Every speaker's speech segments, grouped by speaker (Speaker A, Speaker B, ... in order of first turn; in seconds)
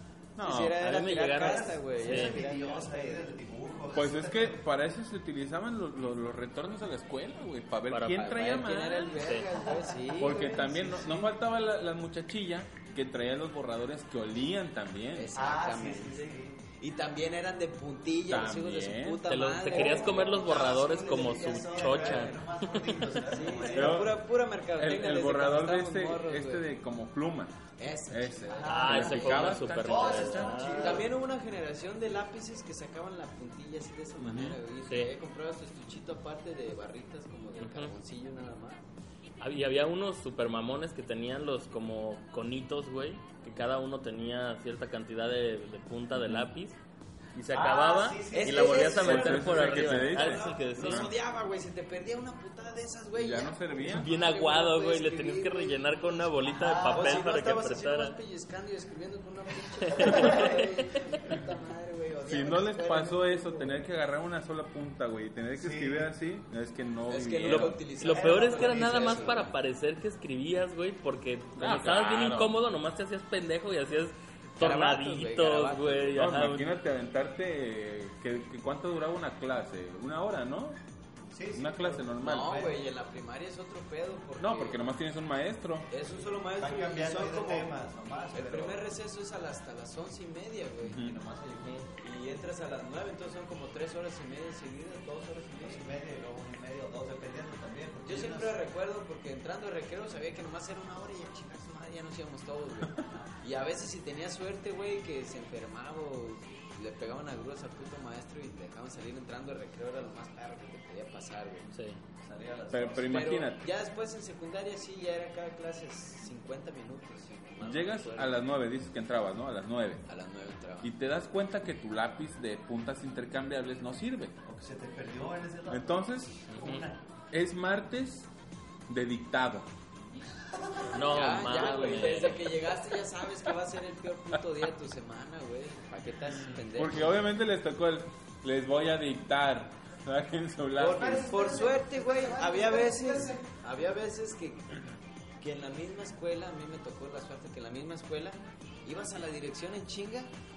Speaker A: 0.4-0.8, 3.9-9.2, 10.2-15.3, 18.3-19.2, 23.7-30.7, 34.2-34.6, 46.1-46.5, 49.0-51.1, 53.1-54.1, 62.2-67.8, 71.6-72.6, 76.1-80.8, 81.5-82.7, 84.4-85.9, 90.8-91.2, 112.7-113.7, 117.6-120.0, 120.8-124.4, 125.7-126.4, 127.3-128.3, 128.9-129.7, 136.7-141.3
Speaker B: 0.4-3.3, 8.2-10.9, 15.1-22.4, 23.2-26.7, 27.8-29.3, 30.8-38.8, 48.3-63.8, 67.1-69.5, 74.6-76.2, 82.2-84.8, 85.9-87.8, 88.3-91.0, 92.0-95.8, 98.0-111.7, 113.0-118.4, 120.0-120.9, 131.0-137.2, 140.8-144.7, 145.4-150.3
Speaker C: 0.7-2.4, 7.9-8.6, 9.1-9.5, 19.2-23.2, 28.7-31.1, 37.6-37.9, 39.4-46.8, 47.3-51.1, 53.9-58.1, 59.9-61.0, 67.5-76.7, 111.7-112.0, 126.5-126.8, 130.9-132.6
Speaker D: 1.2-4.6, 9.6-11.3, 15.3-16.6, 19.7-24.0, 28.5-31.1, 47.5-49.3, 56.5-57.3, 60.0-60.5, 65.5-66.1, 68.1-69.4, 81.3-82.8, 86.5-88.8, 90.9-91.8, 95.6-98.6, 112.2-113.4, 124.4-127.0, 130.6-130.9, 140.8-143.5